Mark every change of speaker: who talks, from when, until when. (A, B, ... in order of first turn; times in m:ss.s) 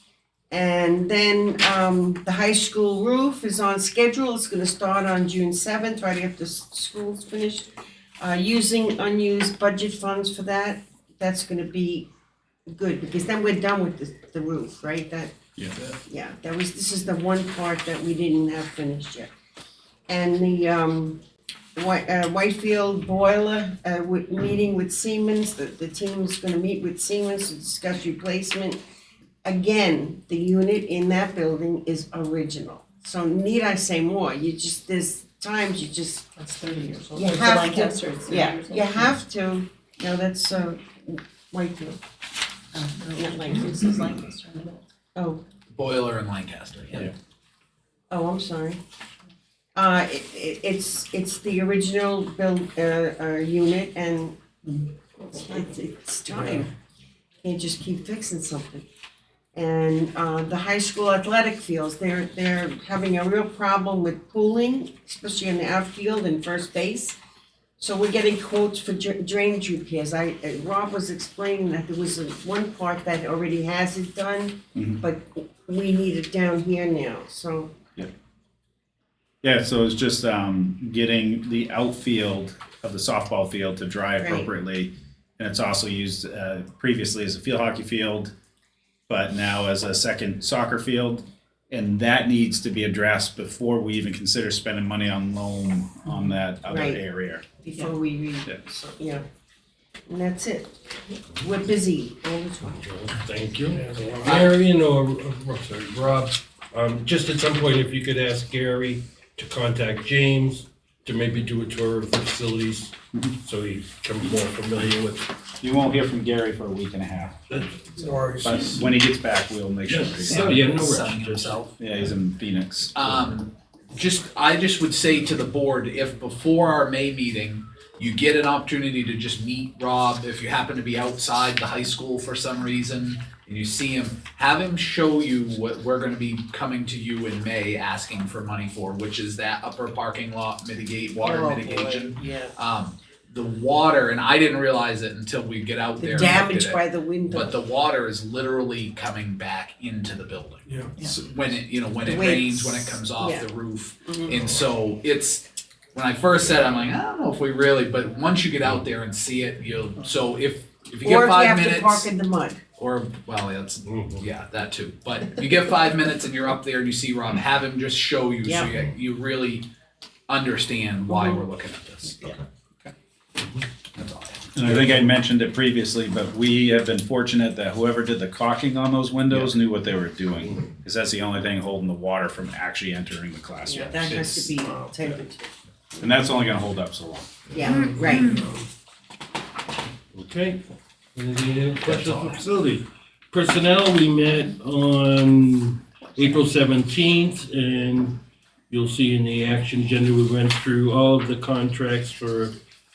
0:00.5-0:07.7 A
0:08.2-0:12.1 A
0:12.7-0:15.3 A
0:16.0-0:19.3 A
0:20.1-0:21.2 A
0:21.7-0:28.8 A
0:29.4-0:36.3 A
0:36.4-0:39.2 B
0:37.1-0:42.0 A
0:42.7-0:44.8 B
0:43.2-0:44.1 A
0:45.1-0:45.4 A
0:45.7-0:47.1 C
0:48.1-0:48.8 A
0:49.7-0:54.3 A
0:55.2-0:56.7 A
0:57.4-0:58.8 A
0:59.5-1:07.2 A
1:07.8-1:17.7 A
1:14.7-1:15.0 D
1:19.4-1:28.3 D
1:24.2-1:24.5 A
1:29.1-1:37.4 D
1:36.7-1:37.0 A
1:37.6-1:39.2 A
1:40.1-1:40.7 A
1:41.4-1:42.9 A
1:42.8-1:55.3 E
1:43.6-1:44.5 F
1:44.2-1:44.5 C
1:55.6-1:57.4 D
1:57.5-1:57.8 E
1:57.9-1:58.8 F
1:58.4-2:00.6 D
1:59.9-2:01.6 E
2:00.2-2:01.7 C
2:01.8-2:03.1 D
2:02.9-2:42.1 C
2:21.2-2:22.5 A
2:26.0-2:27.6 A
2:30.6-2:30.9 F
2:32.0-2:33.5 A
2:34.0-2:34.4 A
2:41.0-2:42.6 A
2:42.8-2:49.6 C
2:43.8-2:44.2 E
2:48.4-2:48.7 A
2:50.3-2:52.3 C
2:53.9-2:54.5 C
2:54.5-3:04.5 D
2:54.7-2:55.0 E
3:03.6-3:05.5 A
3:04.6-3:04.9 F
3:06.0-3:07.3 D
3:07.5-3:08.4 A
3:07.6-3:08.7 F
3:10.1-3:10.6 E
3:11.1-3:18.2 E
3:12.0-3:12.3 D
3:18.7-3:22.5 E